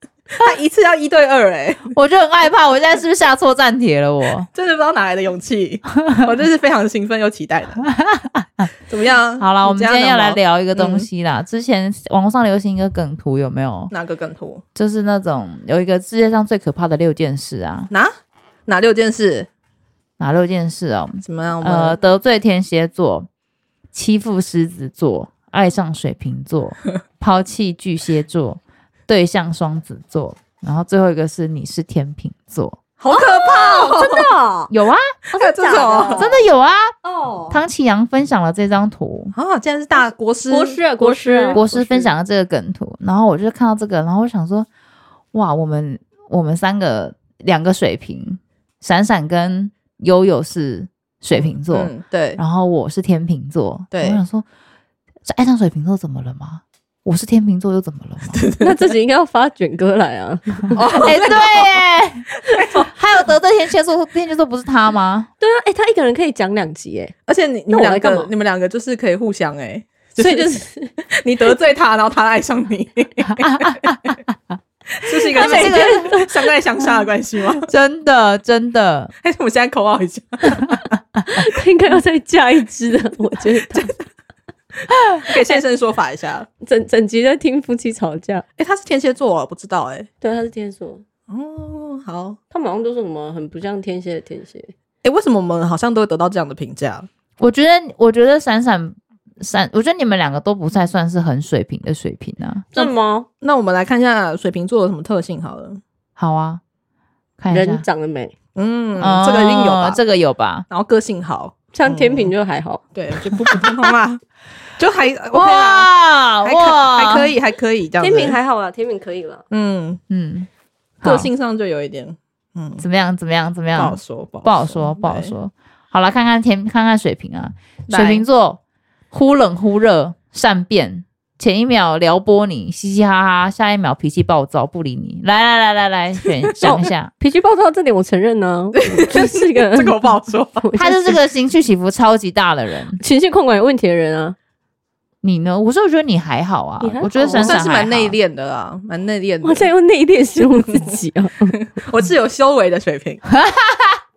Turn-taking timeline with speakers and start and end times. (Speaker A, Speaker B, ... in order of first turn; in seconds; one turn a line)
Speaker A: 0.3-1.9
Speaker B: 1.9-4.5
Speaker A: 4.5-7.8
Speaker B: 7.8-8.7
Speaker A: 8.9-11.1
Speaker B: 9.4-13.9
Speaker A: 13.9-14.6
Speaker B: 14.8-17.9
Speaker A: 18.7-19.5
Speaker B: 20.2-23.3
Speaker A: 21.2-22.0
Speaker B: 23.9-32.8
Speaker A: 33.0-34.2
Speaker C: 33.1-34.7
Speaker B: 34.7-35.0
Speaker C: 35.3-36.4
Speaker A: 35.3-36.4
Speaker B: 36.1-36.9
Speaker C: 37.0-37.6
Speaker B: 37.5-39.3
Speaker A: 39.3-41.6
Speaker C: 40.5-42.1
Speaker B: 41.5-44.7
Speaker B: 45.3-54.5
Speaker A: 51.4-52.4
Speaker A: 53.9-54.2
Speaker B: 55.2-58.4
Speaker A: 58.3-58.8
Speaker C: 58.6-61.1
Speaker A: 60.8-61.7
Speaker B: 61.0-65.3
Speaker A: 62.4-62.9
Speaker C: 65.4-67.1
Speaker A: 67.3-70.6
Speaker C: 67.7-68.3
Speaker C: 70.2-71.0
Speaker A: 71.1-74.1
Speaker B: 73.4-74.1
Speaker A: 75.0-77.7
Speaker B: 75.3-76.1
Speaker C: 75.3-76.5
Speaker B: 77.7-79.1
Speaker A: 79.2-80.8
Speaker C: 81.2-83.9
Speaker A: 85.1-86.5
Speaker C: 86.6-88.4
Speaker A: 88.6-90.1
Speaker C: 90.2-91.0
Speaker A: 91.3-92.4
Speaker C: 92.5-94.7
Speaker A: 95.0-97.1
Speaker B: 97.4-102.9
Speaker C: 102.7-103.3
Speaker A: 103.4-105.8
Speaker B: 106.2-106.6
Speaker B: 107.4-107.8
Speaker C: 107.5-108.3
Speaker A: 108.5-110.0
Speaker B: 109.0-110.7
Speaker A: 110.7-112.3
Speaker C: 111.7-112.8
Speaker A: 112.9-114.2
Speaker A: 114.8-115.9
Speaker B: 115.3-117.3
Speaker A: 116.4-118.4
Speaker C: 118.0-119.4
Speaker A: 119.5-120.0
Speaker B: 120.1-120.5
Speaker B: 121.0-121.3
Speaker A: 121.0-122.8
Speaker B: 122.8-128.6
Speaker A: 123.8-125.3
Speaker A: 127.9-128.2
Speaker B: 129.1-137.1
Speaker C: 136.6-140.0
Speaker A: 138.8-140.6
Speaker C: 140.6-141.2
Speaker B: 140.7-143.0
Speaker C: 143.0-144.3
Speaker B: 145.2-148.1
Speaker C: 146.8-147.6
Speaker A: 147.4-149.7
Speaker C: 149.4-151.6
Speaker A: 151.7-153.3
Speaker B: 153.3-153.9